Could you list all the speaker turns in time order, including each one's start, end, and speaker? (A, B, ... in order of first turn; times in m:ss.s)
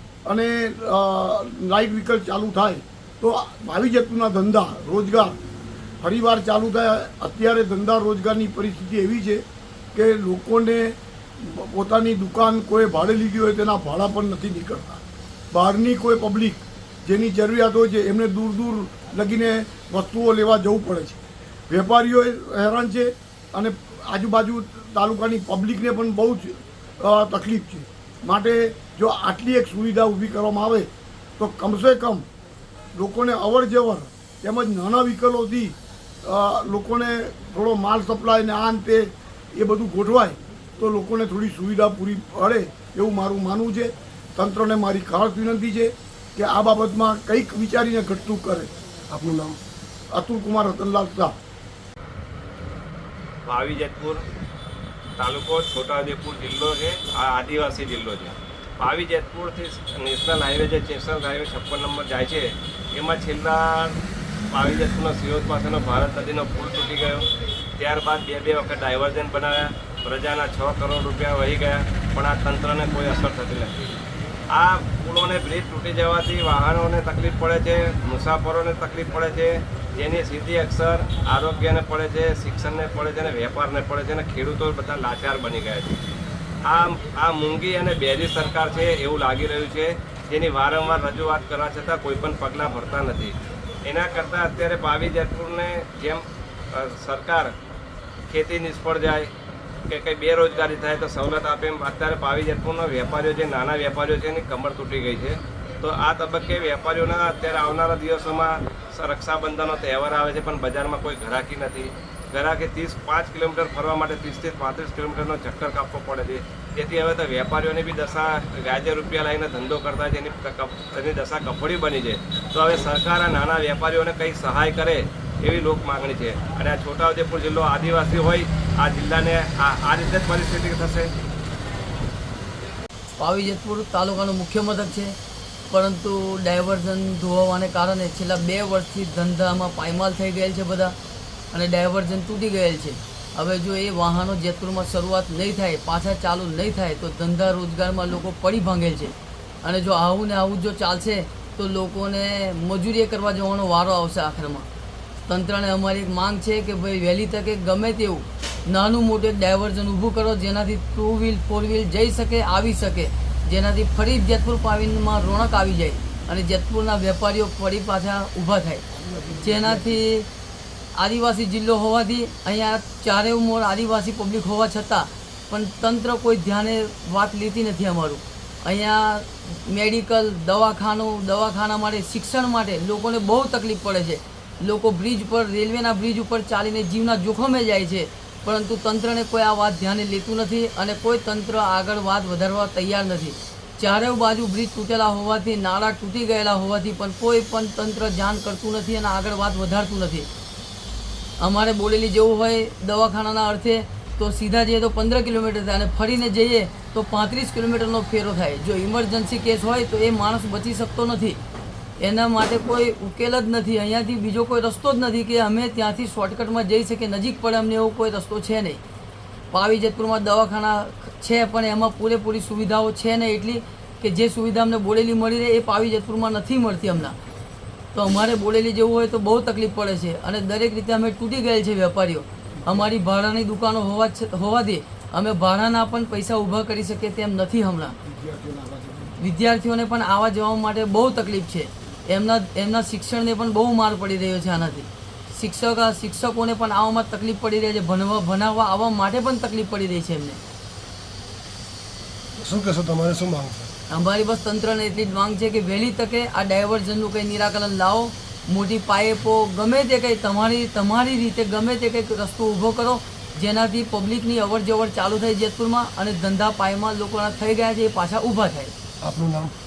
0:00.2-0:05.4 A
0:06.0-0:09.4 A
0:09.9-0:32.2 A
0:32.9-0:48.7 A
0:49.1-0:49.6 B
0:50.1-0:51.4 A
0:53.5-0:54.2 C
0:55.2-1:04.0 C
1:04.5-1:07.2 C
1:07.8-1:13.9 C
1:14.5-1:26.0 C
1:26.6-1:37.5 C
1:38.3-1:39.3 C
1:39.9-2:11.1 C
2:13.2-2:15.1 D
2:15.7-2:21.0 D
2:21.5-2:34.7 D
2:35.3-2:48.8 D
2:49.0-2:49.9 B
2:49.4-2:50.3 D
2:51.0-3:20.3 D
3:21.4-3:31.4 D
3:32.0-3:38.8 D
3:39.5-3:47.2 D
3:47.9-3:57.9 D
3:58.1-3:59.1 A
3:59.2-4:10.4 D
4:12.4-4:13.7 B
4:13.9-4:28.7 D
4:29.0-4:29.5 B